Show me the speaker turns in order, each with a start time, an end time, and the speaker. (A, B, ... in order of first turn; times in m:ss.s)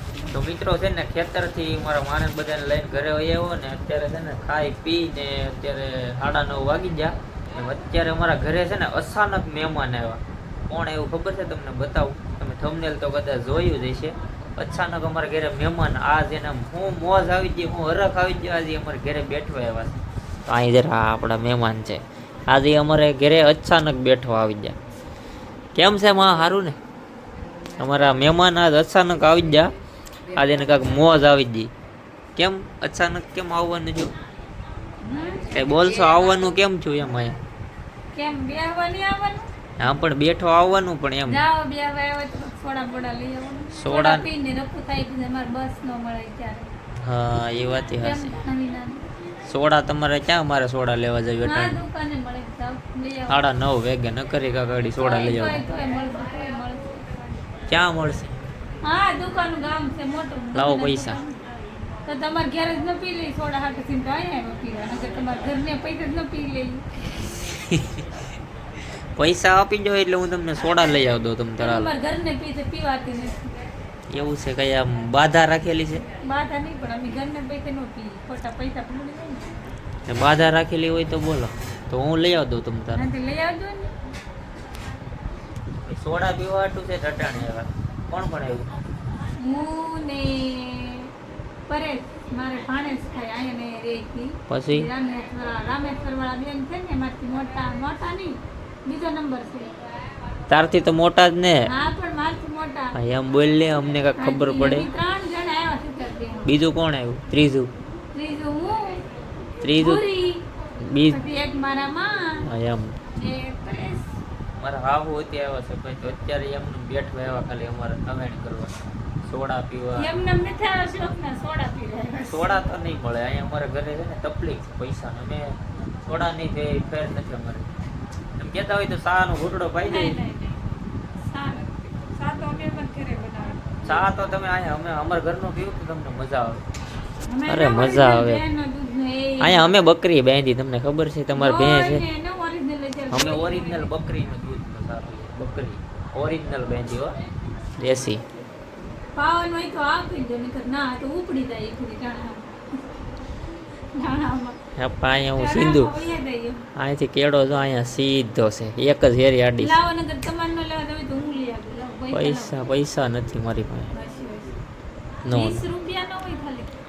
0:00.3-0:24.8 A
0:25.8-0:26.8 A
0:27.8-0:29.7 A
0:30.3-0:31.7 A
0:32.4-0:34.1 A
0:35.0-0:35.5 B
0:35.5-0:37.4 A
0:38.1-0:39.5 B
0:39.8-0:41.4 A
0:41.3-0:46.7 B
0:43.7-0:44.3 A
0:47.0-0:48.4 A
0:48.0-0:49.0 B
0:49.4-0:51.8 A
0:51.4-0:53.4 B
0:53.3-0:55.7 A
0:55.0-0:57.0 B
0:57.7-0:58.4 A
0:58.8-1:01.4 B
1:00.5-1:01.2 A
1:02.0-1:06.8 B
1:07.5-1:08.0 A
1:09.2-1:11.9 A
1:11.6-1:13.5 B
1:14.1-1:16.0 A
1:16.2-1:19.6 B
1:20.1-1:23.1 A
1:22.9-1:23.9 B
1:25.9-1:28.7 A
1:29.4-1:31.1 B
1:31.7-1:39.7 B
1:34.5-1:34.9 A
1:40.5-1:41.7 A
1:41.7-1:42.9 B
1:42.9-1:44.9 A
1:44.2-1:46.6 B
1:46.4-1:47.7 A
1:48.1-1:49.1 B
1:49.6-1:50.0 A
1:49.8-1:50.4 B
1:50.8-1:51.2 A
1:51.0-1:52.5 B
1:52.4-1:53.0 A
1:53.1-1:54.2 B
1:54.6-2:00.1 A
2:00.0-2:02.6 B
2:02.3-2:07.7 A
2:08.4-2:10.2 A
2:09.8-2:10.6 B
2:11.3-2:13.8 B
2:13.8-2:16.6 A
2:17.3-2:19.9 B
2:17.5-2:18.4 A
2:19.4-2:22.0 A
2:21.3-2:23.9 B
2:23.1-2:27.1 A
2:27.8-2:28.2 A
2:29.2-2:32.8 B
2:34.0-2:34.6 B
2:34.8-2:35.9 A
2:35.3-2:36.7 B
2:36.8-2:39.8 A
2:39.6-2:42.6 B
2:42.1-2:43.9 A
2:43.9-2:44.6 B
2:45.3-2:45.6 A
2:45.3-2:46.7 B